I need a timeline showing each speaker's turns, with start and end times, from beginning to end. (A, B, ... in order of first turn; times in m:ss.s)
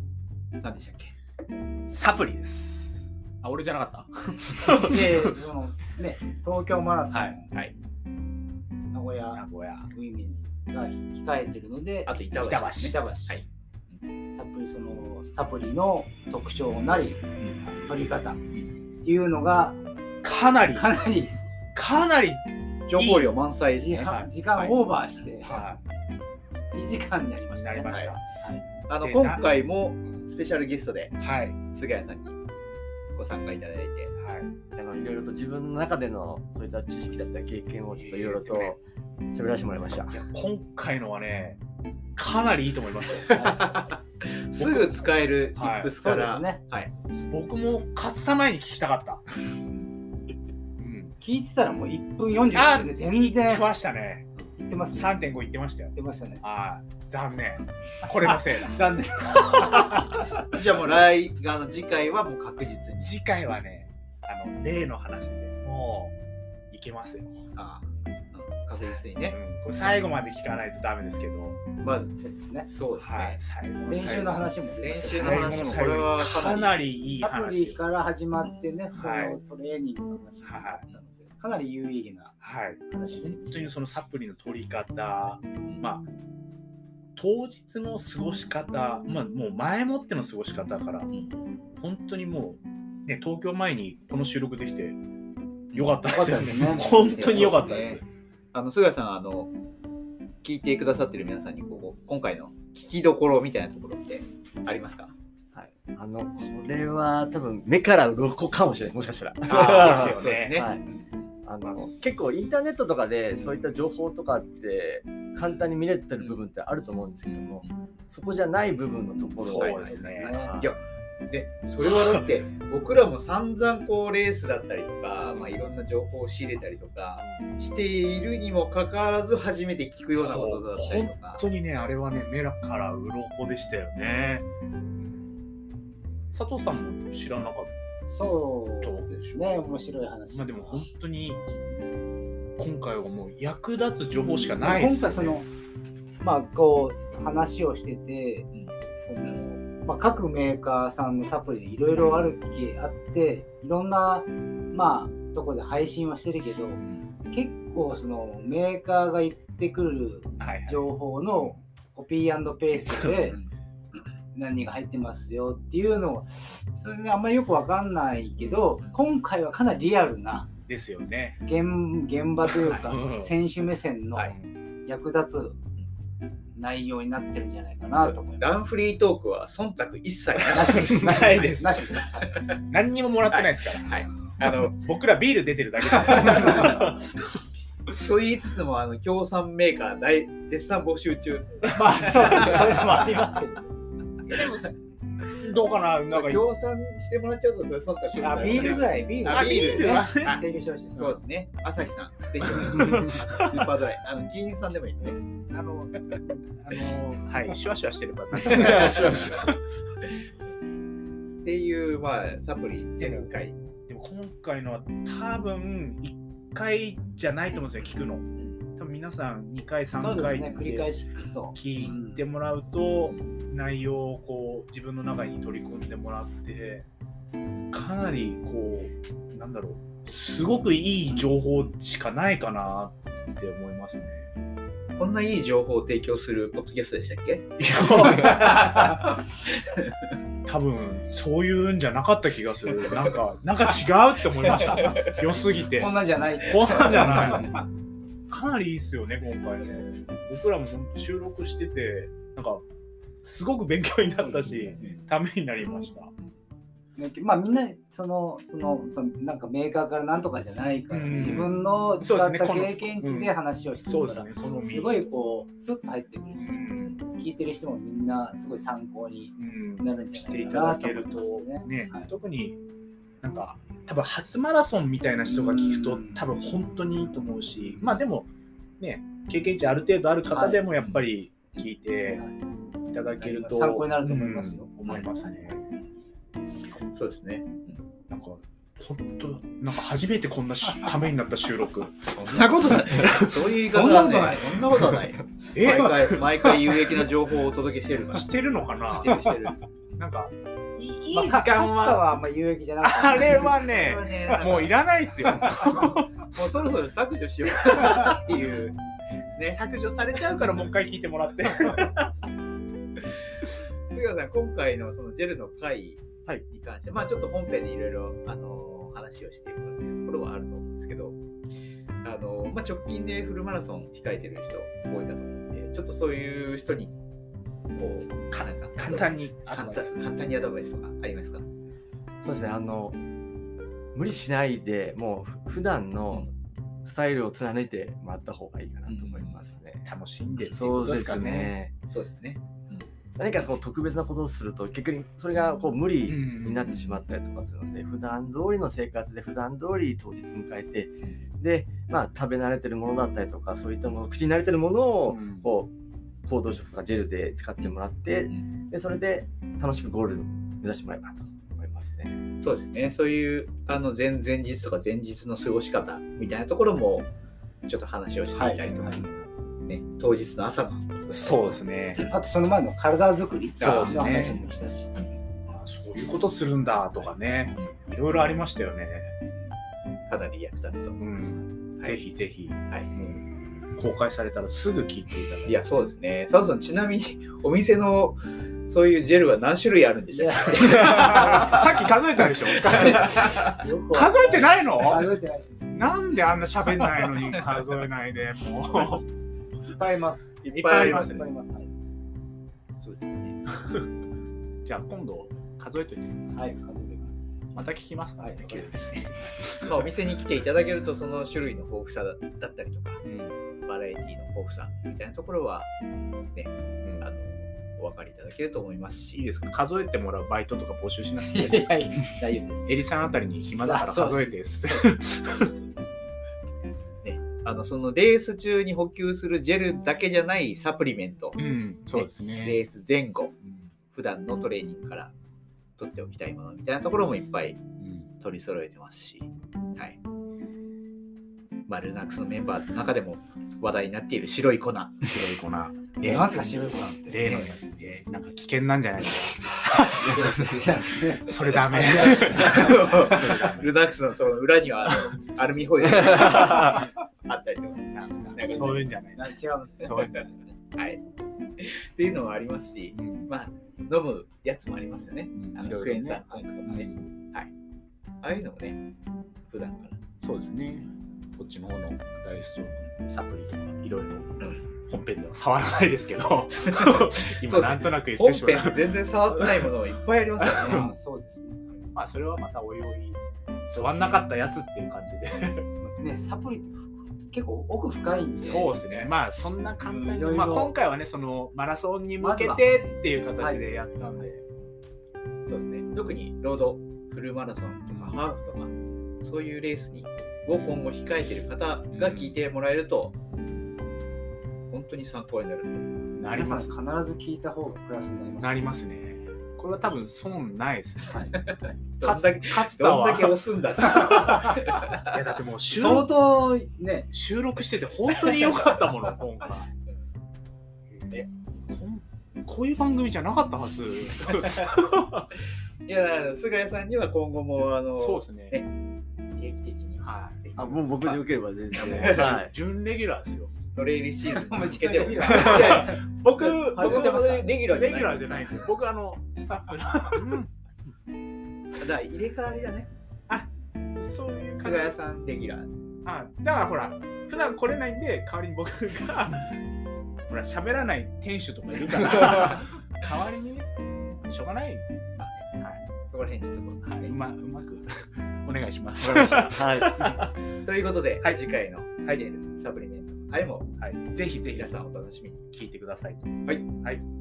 0:00.6-0:01.1 A
0:01.9-0:05.3 B
0:04.7-0:07.5 C
0:08.9-0:12.2 C
0:09.3-0:09.9 B
0:12.1-0:14.0 A
0:12.4-0:12.9 B
0:12.8-0:13.4 C
0:14.3-0:18.4 C
0:19.0-0:19.8 C
0:20.2-0:20.9 B
0:20.7-0:21.3 C
0:21.8-0:22.4 B
0:22.9-0:24.8 A
0:23.0-0:23.4 B
0:23.7-0:25.6 C
0:24.0-0:24.3 B
0:25.4-0:25.8 B
0:26.6-0:28.6 C
0:27.5-0:28.2 B
0:27.9-0:28.2 A
0:28.9-0:31.2 A
0:29.0-0:29.5 B
0:31.2-0:31.6 B
0:31.7-0:32.4 A
0:33.2-0:34.1 A
0:34.2-0:34.5 B
0:34.8-0:40.2 D
0:37.9-0:38.8 B
0:40.1-0:41.6 B
0:42.2-0:43.3 B
0:43.2-0:46.9 A
0:43.4-0:43.6 C
0:44.6-0:45.9 B
0:46.0-0:46.6 C
0:47.3-0:49.2 B
0:50.8-0:51.1 B
0:51.2-0:53.7 C
0:52.5-0:54.3 B
0:54.6-0:55.2 C
0:54.9-1:00.2 B
0:56.0-0:56.4 C
0:59.2-1:00.1 C
1:00.5-1:03.1 A
1:03.0-1:06.2 B
1:06.7-1:07.4 B
1:07.6-1:09.4 A
1:09.2-1:11.6 B
1:11.8-1:13.4 A
1:12.2-1:12.7 C
1:13.0-1:17.8 B
1:13.9-1:15.8 C
1:14.8-1:16.8 A
1:17.2-1:22.4 C
1:19.0-1:19.4 B
1:20.4-1:20.9 B
1:22.4-1:26.0 B
1:22.9-1:23.7 C
1:27.2-1:31.1 B
1:31.1-1:31.4 A
1:31.8-1:35.0 B
1:35.7-1:36.0 A
1:35.8-1:38.0 B
1:36.0-1:37.6 C
1:36.8-1:38.0 A
1:38.5-1:39.5 A
1:40.4-1:45.1 A
1:45.5-1:50.8 D
1:49.5-1:51.2 A
1:49.5-1:50.6 B
1:51.4-1:59.8 D
1:51.6-1:52.2 B
1:56.2-1:56.4 A
1:57.2-1:57.7 A
1:59.4-2:11.4 A
1:59.4-2:00.3 B
1:59.8-2:00.6 C
2:00.3-2:00.7 D
2:05.3-2:05.6 B
2:07.2-2:07.6 B
2:10.1-2:14.5 B
2:15.0-2:15.3 B
2:16.3-2:17.7 B
2:18.1-2:21.8 C
2:18.8-2:19.5 B
2:20.3-2:21.4 B
2:22.6-2:25.4 B
2:24.6-2:25.5 C
2:26.2-2:43.4 C
2:31.9-2:32.3 B
2:40.4-2:41.6 B
2:42.9-2:43.4 B
2:44.3-2:50.5 C
2:48.4-2:48.6 B
2:50.7-2:51.4 B
2:51.4-2:54.3 C
2:52.5-2:53.3 B
2:54.2-2:54.5 B
2:54.8-2:55.6 C
2:56.6-2:58.5 C
2:57.8-3:00.9 A
3:00.4-3:01.8 B
3:00.5-3:02.4 C
3:02.7-3:04.0 B
3:03.3-3:04.8 A
3:04.7-3:07.2 B
3:06.0-3:06.8 A
3:08.0-3:13.1 A
3:11.7-3:13.7 C
3:14.3-3:14.8 A
3:15.4-3:16.5 B
3:16.1-3:20.4 A
3:18.1-3:20.4 B
3:18.2-3:21.2 C
3:21.0-3:25.2 A
3:22.6-3:23.1 B
3:25.5-3:25.9 B
3:26.6-3:29.6 B
3:28.4-3:29.4 D
3:28.5-3:29.3 A
3:31.4-3:33.6 A
3:33.9-3:38.2 B
3:38.8-3:40.9 B
3:39.9-3:42.2 C
3:41.5-3:46.9 B
3:47.7-3:54.3 B
3:55.0-3:59.9 A
3:57.6-3:58.8 B
4:00.5-4:07.6 B
4:02.8-4:03.2 A
4:04.5-4:05.2 A
4:05.8-4:07.6 C
4:06.8-4:07.4 A
4:08.3-4:12.6 B
4:13.2-4:16.1 B
4:14.4-4:15.0 A
4:17.0-4:32.1 C
4:20.9-4:25.1 B
4:26.4-4:27.0 B
4:29.4-4:32.6 B
4:33.2-4:42.2 B
4:35.3-4:36.2 C
4:40.3-4:40.6 C
4:42.9-4:45.6 B
4:43.2-4:44.7 C
4:46.9-4:47.8 A
4:48.1-4:53.4 B
4:52.3-4:59.6 A
4:53.7-4:54.7 C
4:55.6-4:56.3 B
4:58.1-4:59.2 B
5:00.0-5:02.0 B
5:01.1-5:03.7 C
5:02.8-5:06.1 B
5:03.2-5:08.8 A
5:09.5-5:12.1 B
5:13.9-5:21.2 A
5:22.0-5:26.9 A
5:27.8-5:31.5 A
5:28.3-5:30.0 B
5:32.2-5:33.0 D
5:33.9-5:36.3 D
5:36.8-5:39.9 D
5:38.9-5:39.4 A
5:39.8-5:41.6 B
5:40.3-5:40.6 A
5:40.5-5:41.7 D
5:41.9-5:42.9 A
5:43.2-5:55.7 D
5:46.1-5:46.7 B
5:46.6-5:47.1 A
5:55.1-5:55.5 B
5:56.3-6:02.2 D
6:02.4-6:07.1 A
6:07.7-6:09.2 A
6:08.3-6:09.1 C
6:08.6-6:09.1 B
6:09.7-6:12.1 A
6:11.1-6:12.0 B
6:12.0-6:14.9 C
6:13.6-6:14.4 A
6:13.6-6:14.4 B
6:15.5-6:19.1 B
6:20.1-6:22.0 A
6:21.0-6:25.6 B
6:25.5-6:31.6 A
6:30.1-6:31.6 C
6:30.6-6:33.4 B
6:32.4-6:33.6 A
6:32.7-6:35.9 C
6:33.9-6:35.1 B
6:35.7-6:39.0 B
6:39.7-6:41.7 C
6:40.4-6:41.1 A
6:40.6-6:41.3 B
6:42.8-6:43.4 A
6:44.6-6:46.5 B
6:46.3-6:47.4 C
6:47.5-6:49.9 B
6:48.2-6:49.1 C
6:49.6-6:53.0 A
6:53.0-6:53.4 B
6:53.6-6:55.7 A
6:56.3-6:59.2 A
6:59.1-7:02.0 B
7:01.3-7:02.8 C
7:02.7-7:05.5 B
7:03.6-7:05.9 C
7:07.0-7:11.4 A
7:11.4-7:12.6 B
7:11.9-7:13.3 A
7:13.4-7:13.7 B
7:13.9-7:15.1 A
7:15.8-7:17.6 A
7:17.8-7:18.1 B
7:18.2-7:20.0 A
7:21.7-7:25.1 A
7:25.0-7:30.4 B
7:26.0-7:26.3 A
7:26.0-7:27.3 C
7:27.2-7:27.5 A
7:29.4-7:32.5 C
7:31.2-7:33.7 B
7:32.0-7:38.9 A
7:36.0-7:36.9 B
7:37.9-7:40.2 B
7:39.2-7:40.5 C
7:41.6-7:47.5 A
7:42.9-7:43.3 B
7:45.3-7:47.1 B
7:48.2-7:48.8 A
7:49.5-7:50.0 A
7:50.2-7:59.7 B
7:56.6-8:00.8 A
8:00.4-8:00.9 B
8:00.5-8:01.6 C
8:02.0-8:05.7 B
8:03.8-8:04.2 A
8:05.8-8:08.8 C
8:08.4-8:14.4 B
8:08.6-8:09.1 A
8:09.8-8:10.7 C
8:12.2-8:12.6 C
8:13.4-8:14.1 C
8:15.5-8:23.2 A
8:17.9-8:18.2 B
8:20.5-8:20.8 B
8:21.9-8:22.4 B
8:24.7-8:26.0 A
8:26.2-8:26.8 B
8:26.2-8:28.5 C
8:28.4-8:31.4 B
8:31.3-8:35.2 A
8:32.0-8:36.1 B
8:35.7-8:37.1 C
8:37.1-8:39.7 B
8:38.1-8:40.1 A
8:41.7-8:45.3 B
8:45.9-8:48.7 A
8:48.0-8:48.6 B
8:49.4-8:51.1 A
8:50.0-8:51.2 B
8:50.6-8:52.5 D
8:51.7-8:52.4 A
8:51.7-8:53.5 B
8:53.8-8:58.7 A
8:54.3-8:56.0 C
8:55.2-9:00.5 B
9:01.8-9:02.9 A
9:04.0-9:05.0 B
9:04.6-9:05.7 A
9:06.0-9:09.6 B
9:10.3-9:13.7 B
9:14.3-9:14.9 B
9:15.2-9:15.4 A
9:16.1-9:17.2 A
9:16.9-9:20.3 B
9:19.0-9:20.3 D
9:20.6-9:23.7 A
9:23.8-9:24.7 B
9:24.4-9:25.4 A
9:25.5-9:27.0 B